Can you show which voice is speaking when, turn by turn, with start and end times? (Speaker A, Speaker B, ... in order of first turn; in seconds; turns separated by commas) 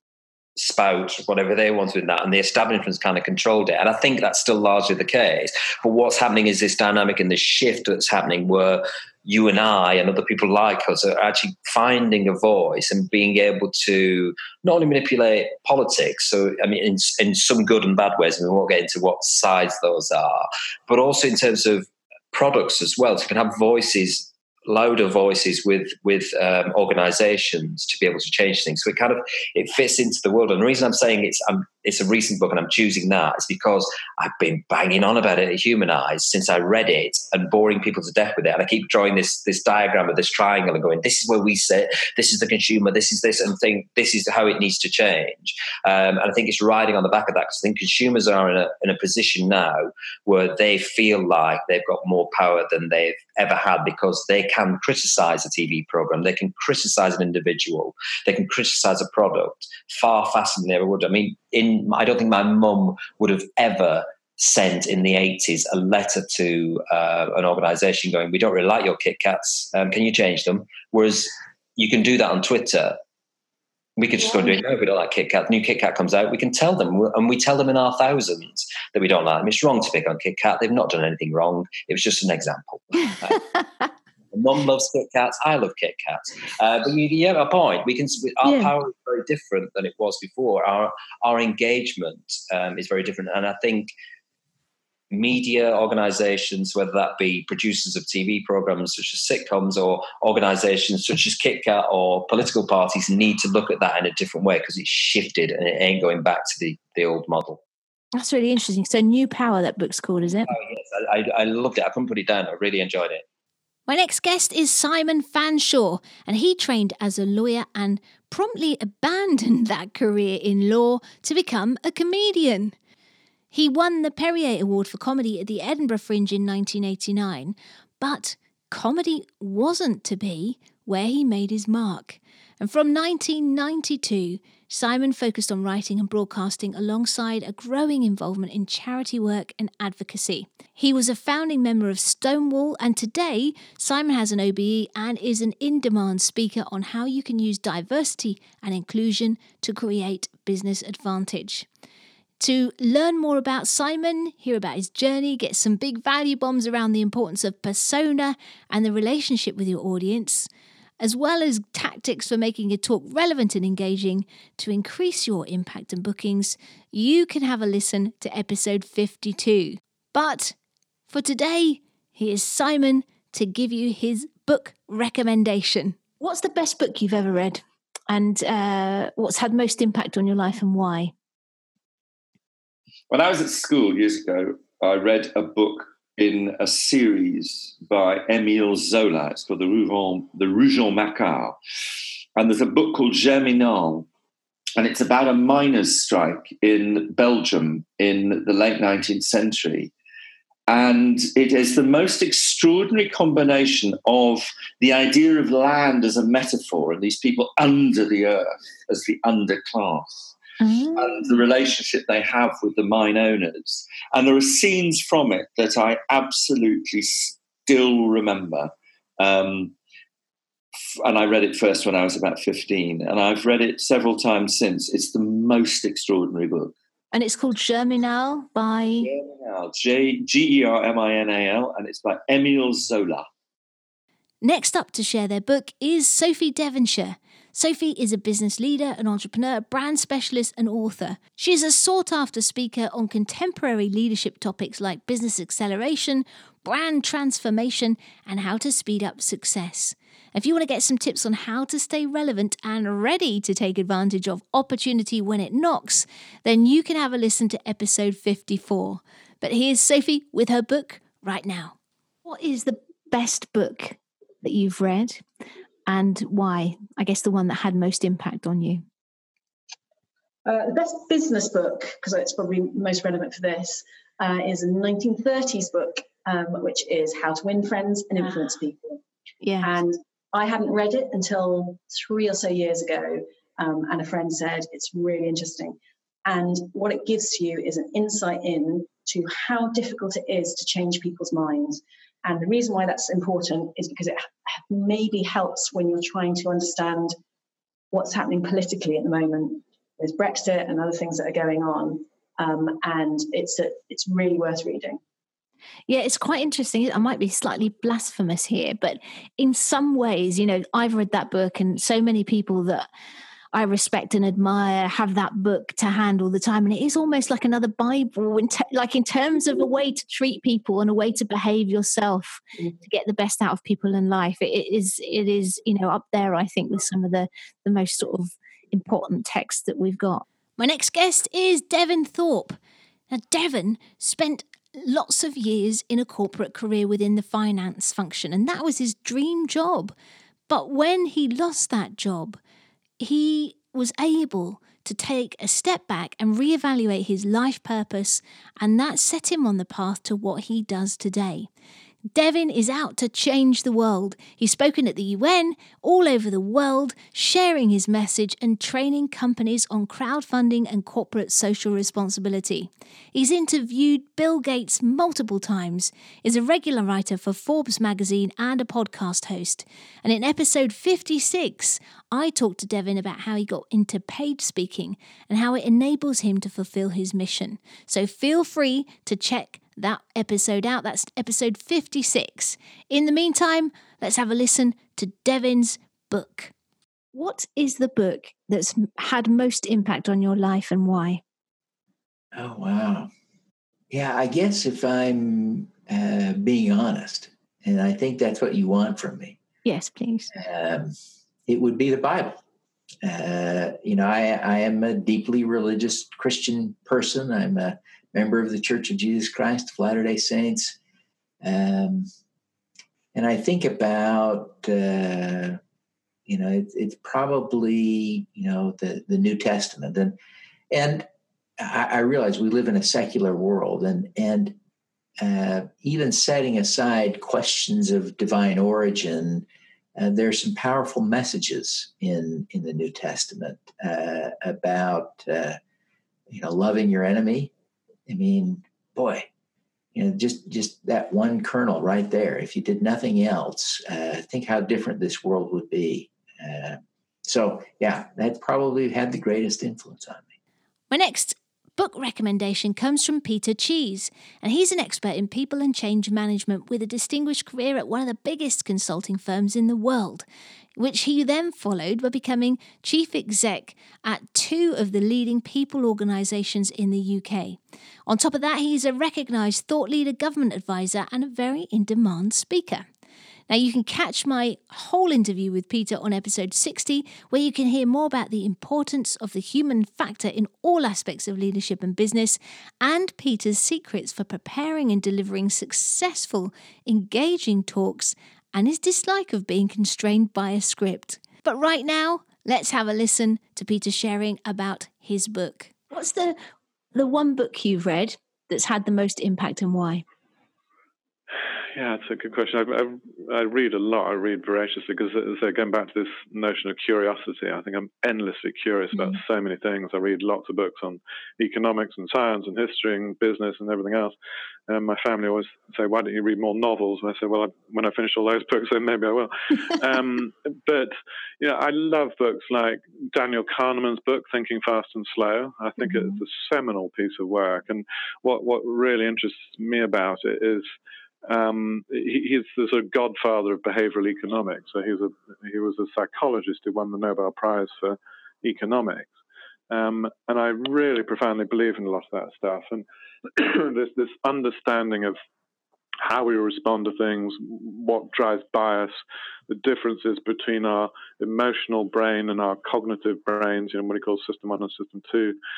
Speaker A: 0.6-73.0, Speaker A: 74.0-83.5, Speaker A: 84.3-93.9, Speaker B: 88.4-88.7, Speaker A: 95.1-107.6, Speaker B: 108.2-110.5, Speaker A: 110.5-113.2, Speaker B: 113.9-122.7, Speaker B: 123.5-151.7, Speaker B: 152.4-160.5, Speaker B: 161.0-170.6, Speaker B: 171.1-181.1, Speaker C: 183.1-191.6, Speaker C: 192.4-194.1, Speaker C: 194.8-199.9, Speaker C: 200.7-210.3, Speaker B: 210.6-211.3, Speaker C: 211.0-219.8, Speaker C: 221.0-226.7, Speaker B: 227.1-229.1, Speaker C: 229.0-233.3, Speaker B: 234.4-265.2, Speaker B: 265.9-268.9, Speaker D: 270.5-279.0, Speaker B: 279.4-279.8, Speaker D: 279.6-297.2, Speaker D: 297.9-305.0, Speaker B: 305.9-312.9, Speaker B: 313.5-332.6, Speaker B: 333.1-339.9, Speaker B: 340.5-342.4, Speaker B: 343.0-351.5, Speaker B: 352.1-386.5, Speaker B: 387.1-391.2, Speaker E: 392.3-393.1, Speaker E: 393.9-399.4, Speaker B: 399.6-400.3, Speaker E: 400.3-400.9, Speaker E: 401.5-402.4, Speaker E: 403.0-410.8, Speaker E: 411.4-412.1, Speaker E: 413.1-415.6, Speaker E: 416.3-420.2, Speaker E: 420.7-421.1, Speaker E: 421.6-424.6, Speaker E: 425.2-429.4, Speaker E: 430.0-435.6, Speaker E: 436.3-437.5, Speaker E: 438.1-439.3, Speaker E: 439.9-450.3, Speaker B: 450.9-460.3, Speaker B: 460.8-472.9, Speaker B: 473.5-496.4, Speaker B: 496.9-500.0, Speaker F: 501.8-514.1, Speaker F: 514.7-530.7, Speaker F: 531.3-539.1, Speaker F: 539.7-545.2, Speaker F: 546.0-555.4